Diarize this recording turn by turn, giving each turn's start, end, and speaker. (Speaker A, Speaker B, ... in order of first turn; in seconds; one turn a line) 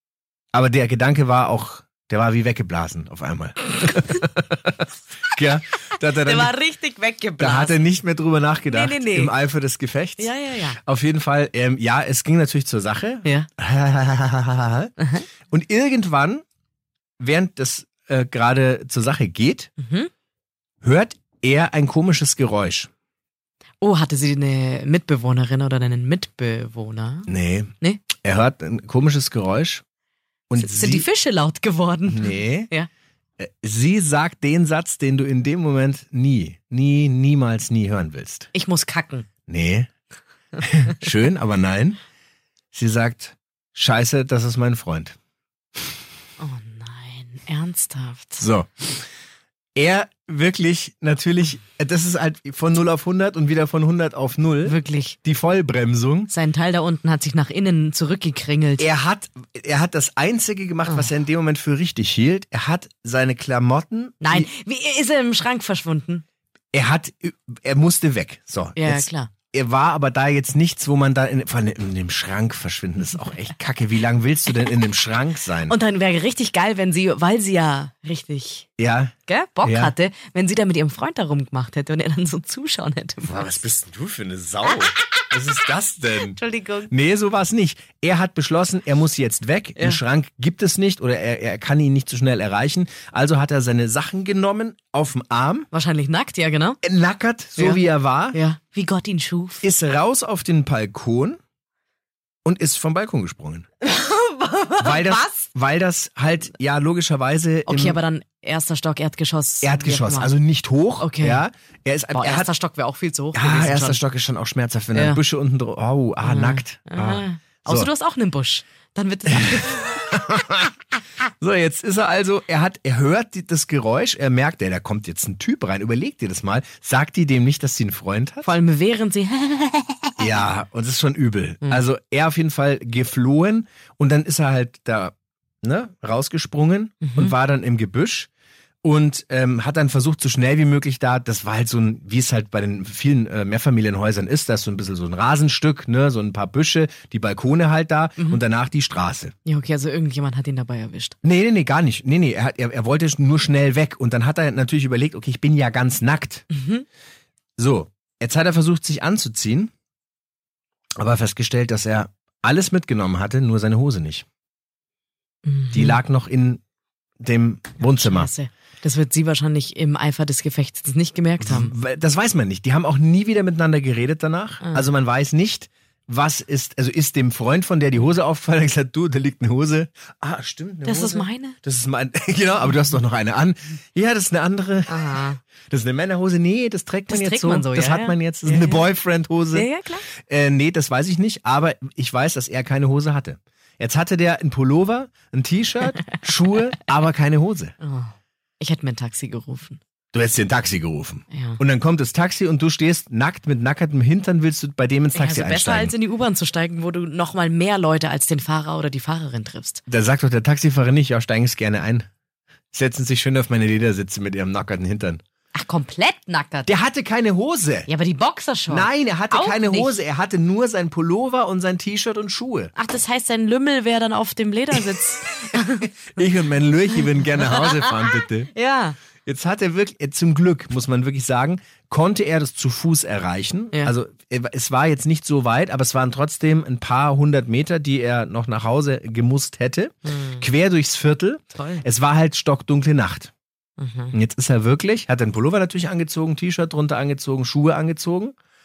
Speaker A: 0.5-6.5
Speaker B: 6.2-7.8
Speaker A: 7.4-14.9
Speaker B: 8.7-9.3
Speaker B: 10.2-10.8
Speaker B: 15.0-15.2
Speaker A: 15.5-16.4
Speaker A: 17.2-19.7
Speaker B: 19.8-20.1
Speaker A: 20.8-22.9
Speaker B: 23.8-27.3
Speaker A: 27.3-29.8
Speaker A: 30.5-31.1
Speaker B: 30.5-32.9
Speaker A: 32.1-32.7
Speaker A: 33.4-38.5
Speaker B: 38.5-39.3
Speaker A: 39.5-39.9
Speaker A: 40.6-42.0
Speaker A: 42.7-45.1
Speaker B: 46.4-48.4
Speaker A: 48.4-49.0
Speaker A: 49.8-56.3
Speaker B: 54.6-55.2
Speaker B: 56.3-58.9
Speaker A: 58.8-64.5
Speaker B: 64.2-66.2
Speaker A: 66.7-75.8
Speaker B: 68.8-69.3
Speaker B: 75.7-78.7
Speaker A: 78.8-79.9
Speaker B: 79.3-83.6
Speaker A: 83.2-95.7
Speaker B: 84.7-85.4
Speaker B: 86.2-86.9
Speaker B: 95.7-96.8
Speaker A: 96.8-98.4
Speaker B: 97.6-99.7
Speaker A: 99.6-101.4
Speaker A: 102.4-103.7
Speaker B: 103.8-105.5
Speaker A: 104.8-108.0
Speaker B: 107.7-110.3
Speaker A: 109.6-112.5
Speaker B: 111.0-111.4
Speaker B: 112.1-114.0
Speaker A: 113.3-117.9
Speaker B: 114.9-115.2
Speaker B: 116.2-120.4
Speaker A: 119.3-120.7
Speaker A: 121.4-128.6
Speaker B: 128.4-130.4
Speaker A: 130.2-138.3
Speaker B: 137.0-137.3
Speaker A: 138.8-149.3
Speaker B: 149.4-151.1
Speaker A: 151.2-156.4
Speaker B: 156.5-156.8
Speaker A: 157.6-159.7
Speaker A: 161.0-164.2
Speaker B: 165.4-166.0
Speaker A: 165.7-166.6
Speaker A: 167.2-168.3
Speaker B: 167.8-171.7
Speaker A: 171.4-197.7
Speaker B: 174.6-174.9
Speaker B: 180.8-181.6
Speaker B: 184.9-185.4
Speaker B: 187.1-188.9
Speaker B: 189.5-190.1
Speaker B: 197.8-199.8
Speaker A: 200.1-205.9
Speaker B: 201.3-201.6
Speaker B: 205.1-209.8
Speaker A: 209.9-212.0
Speaker A: 212.7-215.2
Speaker B: 215.5-216.7
Speaker A: 216.7-217.9
Speaker B: 217.9-220.0
Speaker A: 218.7-222.7
Speaker B: 222.8-226.2
Speaker A: 225.5-228.5
Speaker B: 226.9-229.0
Speaker A: 229.2-243.3
Speaker B: 240.1-240.5
Speaker B: 241.5-241.8
Speaker B: 243.8-244.1
Speaker A: 244.1-248.3